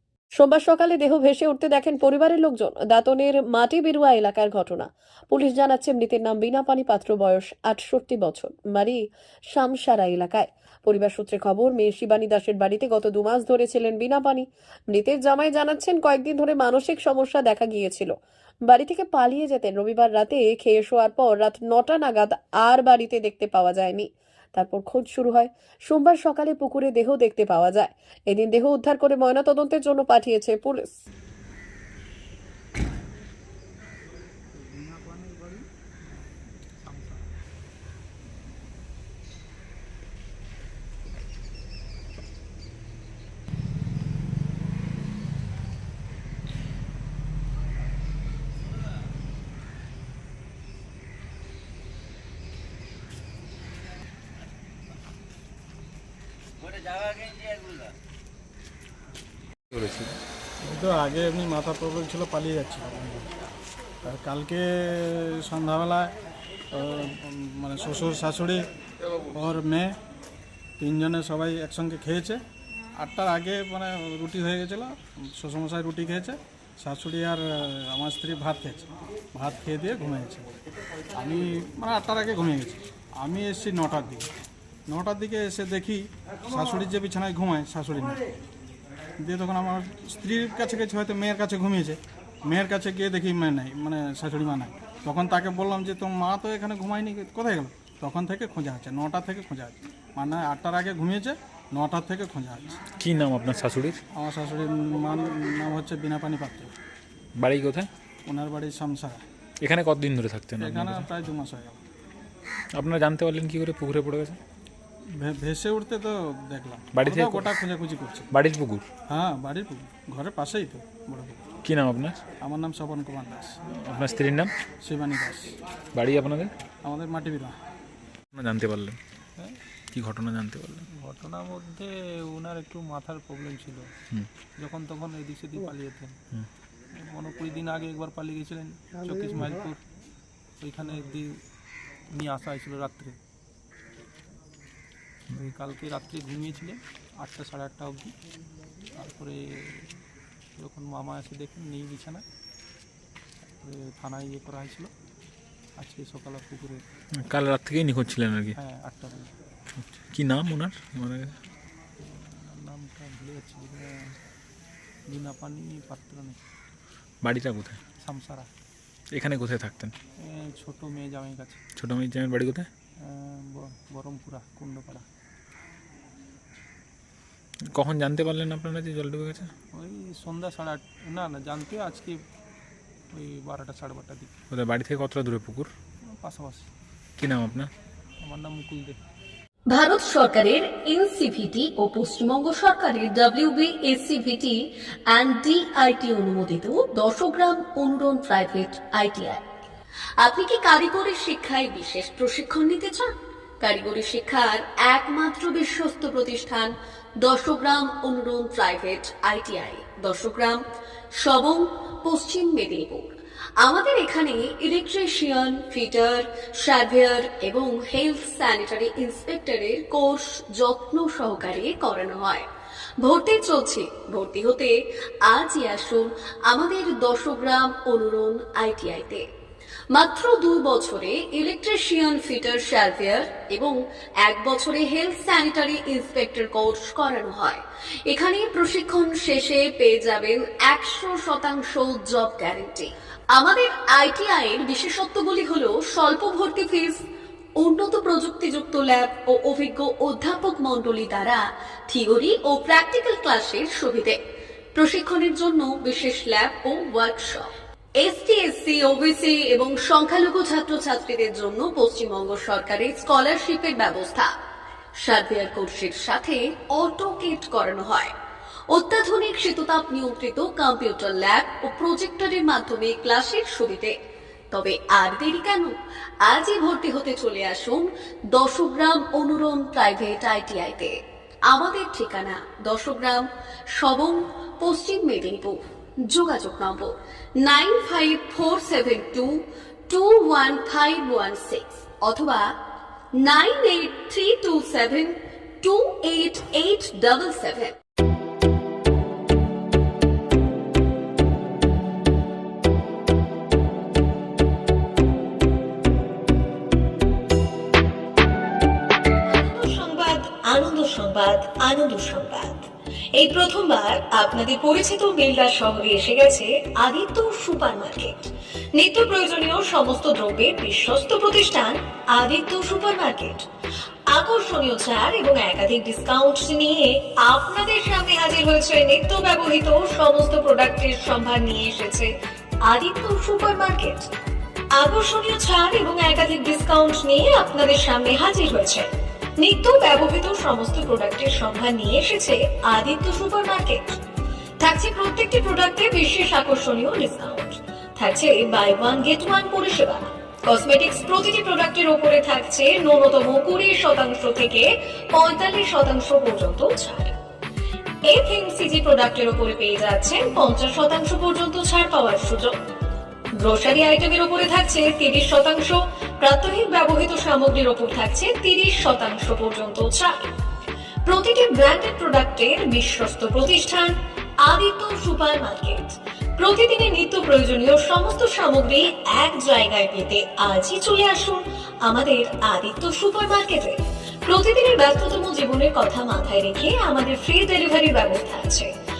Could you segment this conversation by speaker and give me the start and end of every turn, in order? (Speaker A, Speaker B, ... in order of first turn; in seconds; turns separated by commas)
Speaker A: 0.3-18.1, Speaker A: 18.7-31.0, Speaker B: 34.5-35.7, Speaker B: 36.8-37.2, Speaker C: 59.7-60.1, Speaker D: 60.6-63.3, Speaker D: 64.0-66.1, Speaker D: 66.7-68.6, Speaker D: 69.3-69.9, Speaker D: 70.8-72.4, Speaker D: 73.0-80.5, Speaker D: 81.2-84.2, Speaker D: 84.9-88.2, Speaker D: 89.2-102.8, Speaker C: 103.0-104.0, Speaker D: 104.1-106.7, Speaker C: 107.4-107.9, Speaker D: 108.2-109.2, Speaker C: 109.6-111.1, Speaker D: 110.6-111.8, Speaker C: 112.7-114.4, Speaker D: 115.2-118.3, Speaker C: 116.9-117.5, Speaker C: 118.3-118.8, Speaker D: 119.1-121.5, Speaker C: 121.6-122.2, Speaker D: 122.4-123.6, Speaker C: 123.7-124.5, Speaker D: 124.8-125.6, Speaker C: 125.9-126.5, Speaker D: 126.8-127.5, Speaker C: 128.3-129.0, Speaker C: 129.9-130.9, Speaker B: 131.0-133.8, Speaker B: 134.6-136.2, Speaker B: 137.0-139.8, Speaker B: 140.6-141.3, Speaker B: 142.1-143.1, Speaker B: 145.3-148.1, Speaker B: 148.9-149.9, Speaker B: 150.6-152.2, Speaker B: 153.6-154.9, Speaker B: 155.8-156.8, Speaker C: 157.2-158.6, Speaker B: 158.6-159.3, Speaker C: 159.8-161.3, Speaker B: 162.0-164.1, Speaker B: 165.1-166.4, Speaker C: 167.2-167.8, Speaker B: 168.0-168.5, Speaker C: 169.1-169.9, Speaker B: 170.2-171.6, Speaker C: 171.8-172.7, Speaker B: 173.0-175.0, Speaker C: 177.7-179.5, Speaker B: 179.7-182.1, Speaker B: 183.1-184.3, Speaker C: 184.5-185.7, Speaker B: 186.2-186.7, Speaker C: 187.2-187.7, Speaker B: 188.2-189.0, Speaker A: 189.7-199.4, Speaker A: 200.2-210.6, Speaker A: 211.2-213.1, Speaker A: 213.6-222.4, Speaker A: 223.0-224.7, Speaker A: 225.3-229.2, Speaker A: 229.9-247.0, Speaker A: 247.6-254.2, Speaker A: 254.7-264.3, Speaker A: 265.0-268.1, Speaker A: 268.7-273.9, Speaker A: 274.5-292.5, Speaker A: 293.2-297.8, Speaker E: 309.3-323.4, Speaker E: 324.1-332.1, Speaker E: 332.6-334.1, Speaker E: 334.7-344.0, Speaker E: 344.6-357.2, Speaker E: 358.1-362.5, Speaker E: 363.4-370.3, Speaker E: 371.0-388.7